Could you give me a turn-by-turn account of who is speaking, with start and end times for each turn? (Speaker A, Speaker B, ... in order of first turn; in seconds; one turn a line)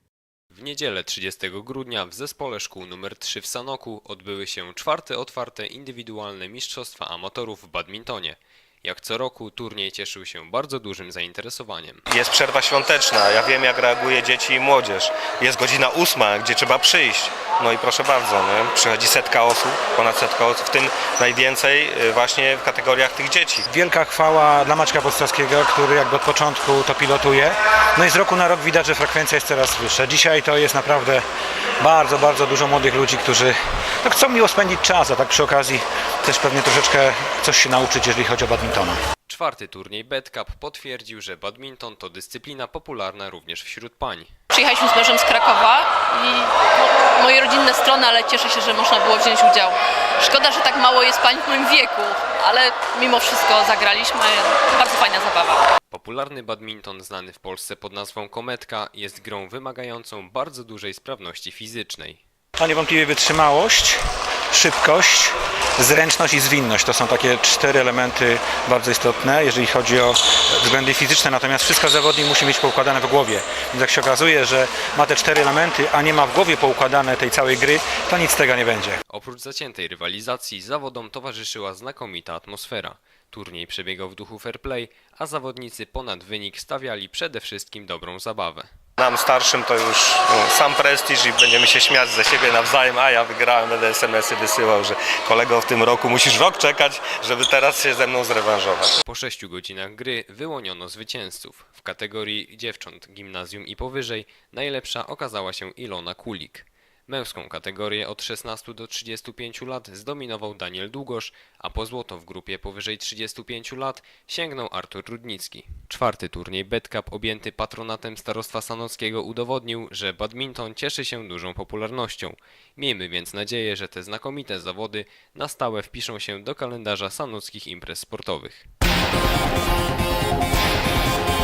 Speaker A: 0.5-12.0
Speaker B: 12.1-23.7
Speaker C: 23.7-31.2
Speaker C: 31.8-39.0
Speaker A: 39.3-44.3
Speaker D: 44.5-55.6
Speaker A: 55.9-62.2
Speaker C: 62.6-64.0
Speaker C: 64.5-79.0
Speaker A: 79.1-88.7
Speaker B: 89.0-99.0
Speaker A: 99.0-128.7